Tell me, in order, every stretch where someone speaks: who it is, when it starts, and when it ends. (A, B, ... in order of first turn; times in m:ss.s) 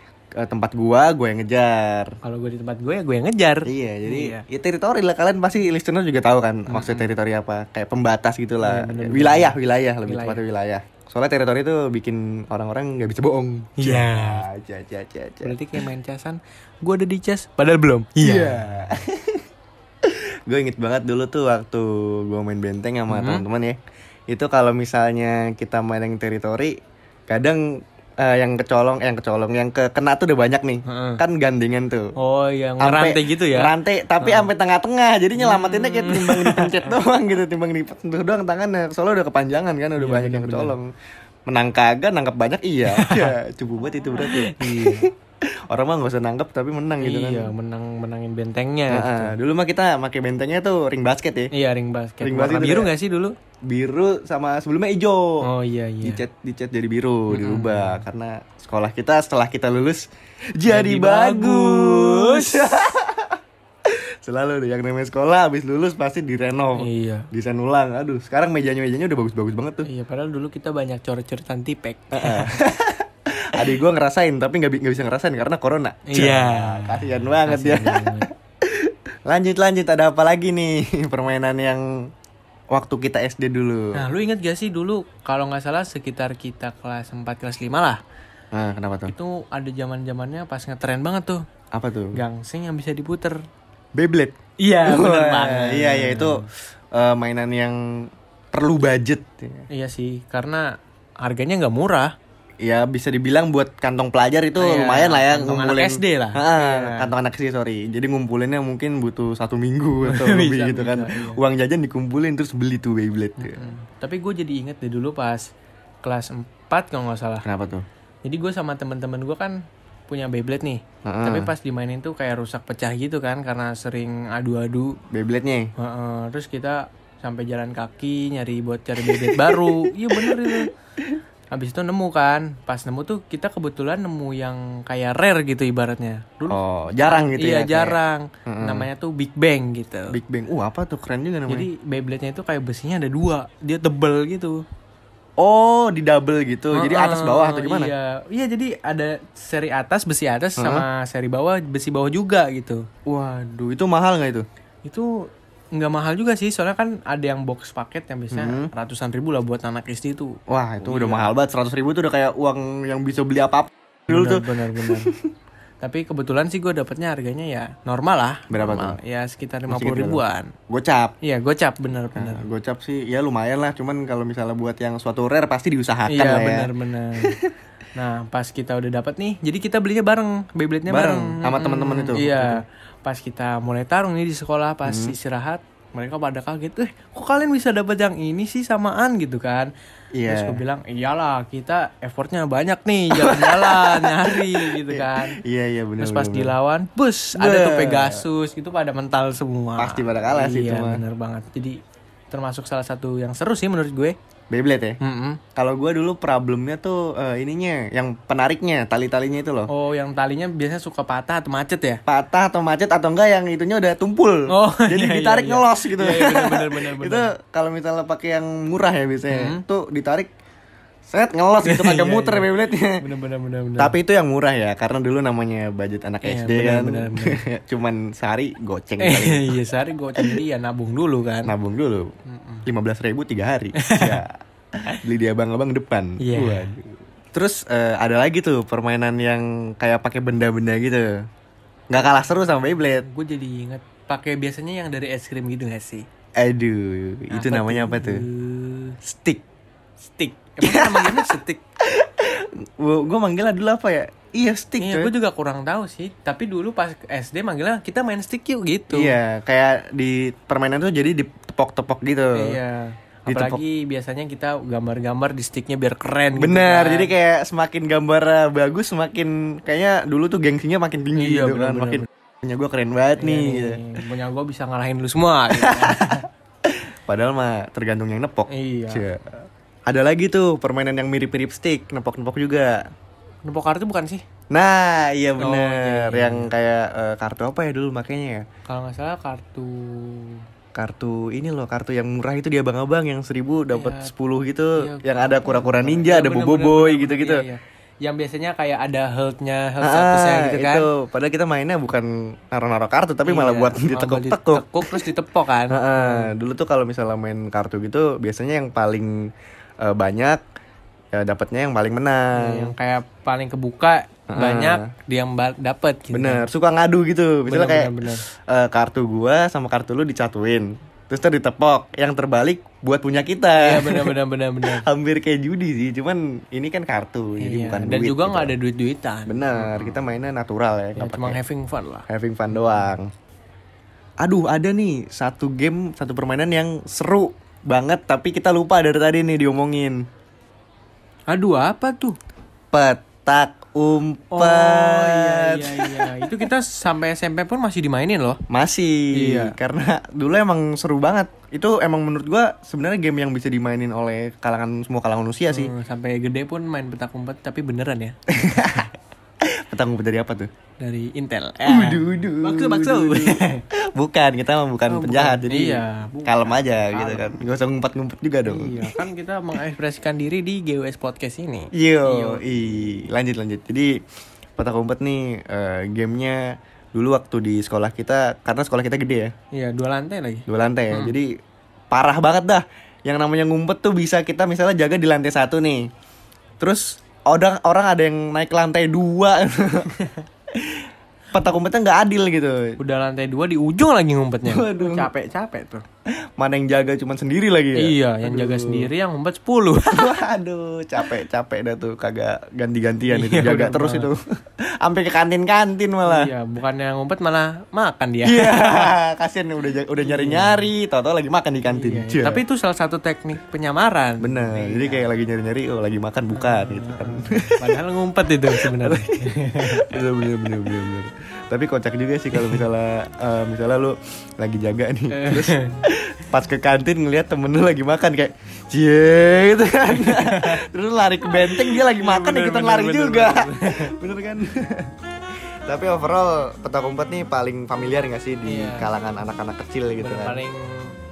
0:00.4-0:02.2 A
0:02.2-0:04.4 B
0:03.7-0:15.6 A
0:06.7-0:07.1 B
0:08.6-0:10.4 B
0:13.8-0:14.5 B
0:15.4-0:18.9 B
0:18.2-0:19.4 A
0:20.0-0:23.8 A
0:23.1-0:23.4 B
0:24.3-0:26.8 A
0:27.3-0:27.7 A
0:28.2-0:32.1 A
0:30.9-0:31.2 B
0:32.2-0:34.5 B
0:32.8-0:40.9 A
0:35.4-0:36.9 B
0:40.0-0:40.8 B
0:41.5-0:45.1 A
0:42.9-0:43.3 B
0:44.2-0:45.1 B
0:45.7-0:47.5 A
0:47.0-0:49.3 B
0:48.9-0:51.5 A
0:51.5-0:53.3 B
0:52.2-0:52.9 A
0:53.7-0:55.5 A
0:55.4-0:56.2 B
0:56.0-1:09.9 A
0:57.3-0:58.0 B
1:00.7-1:02.9 B
1:06.8-1:07.3 B
1:09.8-1:12.5 B
1:12.1-1:22.1 A
1:16.1-1:18.3 B
1:22.7-1:24.1 A
1:23.9-1:28.0 B
1:28.5-1:29.1 A
1:29.1-1:31.4 B
1:31.7-1:32.2 A
1:32.1-1:33.4 B
1:34.0-1:39.7 A
1:34.6-1:36.5 B
1:39.7-1:40.7 B
1:41.2-1:42.1 B
1:42.6-1:53.7 A
1:44.6-1:47.1 B
1:50.0-1:51.4 B
1:53.4-1:55.5 B
1:56.0-1:57.4 B
1:57.4-1:57.8 A
1:58.2-1:59.6 B
2:00.1-2:05.0 B
2:01.0-2:01.5 A
2:05.1-2:05.7 A
2:05.8-2:10.7 B
2:09.0-2:11.2 A
2:11.5-2:20.2 B
2:16.5-2:18.9 A
2:20.1-2:21.7 A
2:21.5-2:24.6 B
2:25.4-2:27.9 A
2:26.7-2:32.8 B
2:30.6-2:30.9 A
2:33.1-2:34.5 A
2:34.8-2:35.2 B
2:35.7-2:41.3 B
2:38.3-2:38.7 A
2:40.5-2:45.2 A
2:44.1-2:45.1 B
2:45.8-2:50.5 B
2:48.5-2:49.0 A
2:49.7-2:51.2 A
2:51.2-2:52.5 B
2:52.2-2:56.7 A
2:56.1-2:57.4 B
2:57.2-2:57.6 A
2:58.0-3:09.7 B
3:00.9-3:02.6 A
3:04.9-3:05.2 A
3:10.2-3:10.6 A
3:10.2-3:15.4 B
3:13.1-3:16.6 A
3:16.0-3:21.8 B
3:17.4-3:18.2 A
3:19.8-3:21.0 A
3:22.3-3:24.2 B
3:24.5-3:25.0 A
3:25.0-3:25.4 B
3:25.6-3:29.7 A
3:29.7-3:32.0 B
3:32.1-3:40.3 A
3:34.5-3:37.3 B
3:39.3-3:39.6 B
3:41.1-3:43.0 A
3:41.6-3:44.0 B
3:43.8-3:49.5 A
3:46.2-3:47.4 B
3:49.0-3:51.5 B
3:51.5-3:52.1 A
3:52.3-3:52.7 B
3:52.7-4:01.1 A
3:53.8-3:54.2 B
3:56.2-3:56.7 B
4:01.9-4:03.1 A
4:02.0-4:06.1 B
4:06.4-4:08.2 A
4:07.3-4:09.0 B
4:09.0-4:09.4 A
4:10.0-4:11.6 B
4:10.6-4:15.1 A
4:14.8-4:19.2 B
4:18.9-4:22.6 A
4:22.4-4:27.2 B
4:23.3-4:23.6 A
4:26.3-4:34.0 A
4:31.2-4:32.1 B
4:33.2-4:36.3 B
4:35.5-4:42.8 A
4:38.5-4:39.1 B
4:43.4-4:44.2 B
4:44.5-4:48.5 A
4:45.4-4:46.5 B
4:48.7-4:50.4 B
4:50.8-4:57.4 A
4:53.7-4:54.1 B
4:54.8-5:00.9 B
4:59.8-5:05.1 A
5:03.2-5:06.3 B
5:05.7-5:09.3 A
5:09.8-5:10.4 A
5:11.1-5:12.7 A
5:12.3-5:16.5 B
5:14.3-5:14.9 A
5:16.1-5:28.5 A
5:17.5-5:18.2 B
5:23.6-5:24.9 B
5:27.4-5:30.0 B
5:29.3-5:31.4 A
5:31.0-5:32.9 B
5:32.1-5:33.1 A
5:34.2-5:40.0 A
5:41.3-5:42.2 B
5:42.7-5:46.5 A
5:44.3-5:48.4 B
5:48.5-5:55.7 A
5:49.2-5:49.6 B
5:55.5-5:58.2 B
5:58.3-6:00.5 A
6:00.8-6:03.6 B
6:01.7-6:09.1 A
6:04.9-6:07.4 B
6:08.5-6:12.4 B
6:11.8-6:14.0 A
6:14.6-6:19.3 A
6:19.5-6:21.2 B
6:20.5-6:21.3 A
6:21.9-6:25.9 A
6:26.6-6:29.9 A
6:30.5-6:32.8 A
6:32.8-6:35.8 B
6:34.4-6:35.1 A
6:36.4-6:38.9 A
6:37.8-6:40.2 B
6:39.9-6:46.3 A
6:43.1-6:44.1 B
6:46.1-6:48.9 B
6:48.2-6:52.4 A
6:50.0-6:50.7 B
6:51.7-6:55.1 B
6:54.2-6:57.7 A
6:56.3-7:00.0 B
6:58.5-7:14.9 A
7:02.4-7:02.6 B
7:05.1-7:05.8 B
7:10.0-7:10.6 B
7:11.3-7:13.9 B
7:15.7-7:20.4 A
7:18.4-7:18.9 B
7:20.0-7:20.9 B